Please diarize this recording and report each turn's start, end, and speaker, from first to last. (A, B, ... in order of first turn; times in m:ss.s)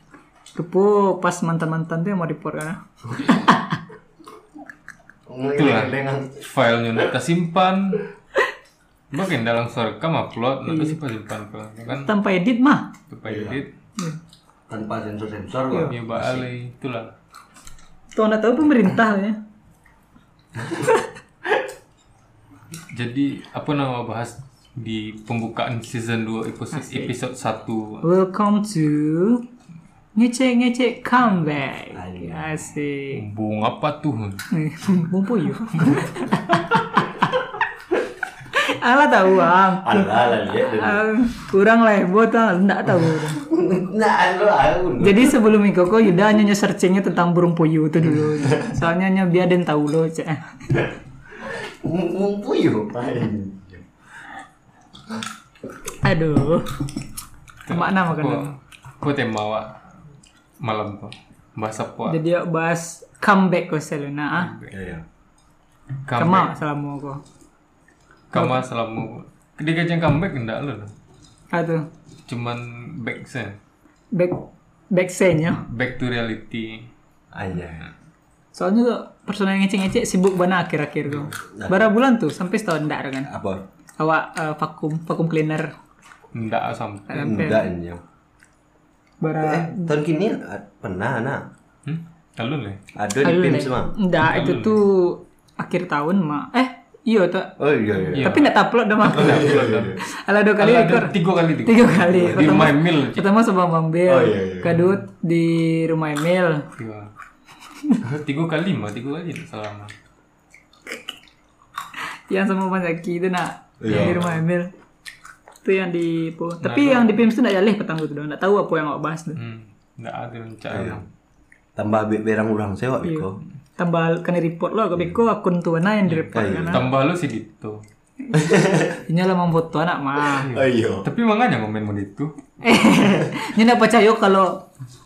0:00.5-0:03.6 A
0:05.3-0:06.4 B
0:05.6-0:08.1 C
0:09.1-0:12.1 C
0:10.7-0:11.0 A
0:12.0-0:12.9 A
0:13.1-0:13.7 C
0:13.3-0:13.6 B
0:14.7-0:16.4 B
0:15.9-0:17.1 C
0:18.1-0:19.4 A
0:22.9-0:28.0 C
0:26.7-0:27.1 A
0:28.0-0:29.4 A
0:30.1-0:33.2 A
0:31.9-0:32.6 B
0:33.1-0:34.5 C
0:34.5-0:37.3 A
0:35.7-0:36.4 C
0:38.5-0:43.4 A
0:39.8-0:41.1 B
0:43.3-0:45.3 B
0:45.0-0:50.4 A
0:48.2-0:48.7 B
0:51.4-0:53.8 B
0:56.0-0:56.9 A
0:57.6-0:59.7 C
0:57.7-0:58.5 A
1:00.6-1:02.2 C
1:02.1-1:04.5 A
1:04.4-1:04.7 C
1:04.7-1:05.0 B
1:06.0-1:06.5 C
1:06.2-1:07.2 A
1:08.3-1:10.9 C
1:11.5-1:11.8 A
1:12.3-1:13.6 C
1:14.1-1:15.6 A
1:15.7-1:16.9 C
1:17.3-1:17.9 B
1:18.5-1:23.3 A
1:21.2-1:21.9 B
1:23.3-1:23.6 B
1:24.0-1:25.7 A
1:26.3-1:27.4 C
1:27.1-1:27.6 A
1:27.1-1:28.0 B
1:29.2-1:29.9 A
1:29.4-1:31.4 B
1:31.8-1:32.8 C
1:32.9-1:33.9 B
1:33.2-1:37.5 A
1:34.2-1:34.8 C
1:37.6-1:38.4 B
1:38.1-1:38.5 C
1:38.2-1:46.6 A
1:39.0-1:40.0 C
1:39.1-1:40.0 B
1:40.6-1:43.2 C
1:42.1-1:42.6 B
1:44.1-1:44.8 B
1:44.7-1:45.0 C
1:46.8-1:47.1 C
1:48.1-1:49.9 C
1:52.3-1:54.7 A
1:53.8-1:54.3 B
1:53.9-1:54.2 C
1:55.6-1:59.4 A
1:56.6-1:57.2 C
1:59.4-2:01.0 C
2:00.7-2:01.0 B
2:01.8-2:03.4 B
2:03.8-2:06.8 A
2:06.1-2:07.8 C
2:06.3-2:06.9 B
2:08.2-2:10.5 A
2:08.3-2:09.0 B
2:10.4-2:12.3 C
2:10.5-2:11.0 B
2:12.6-2:14.6 A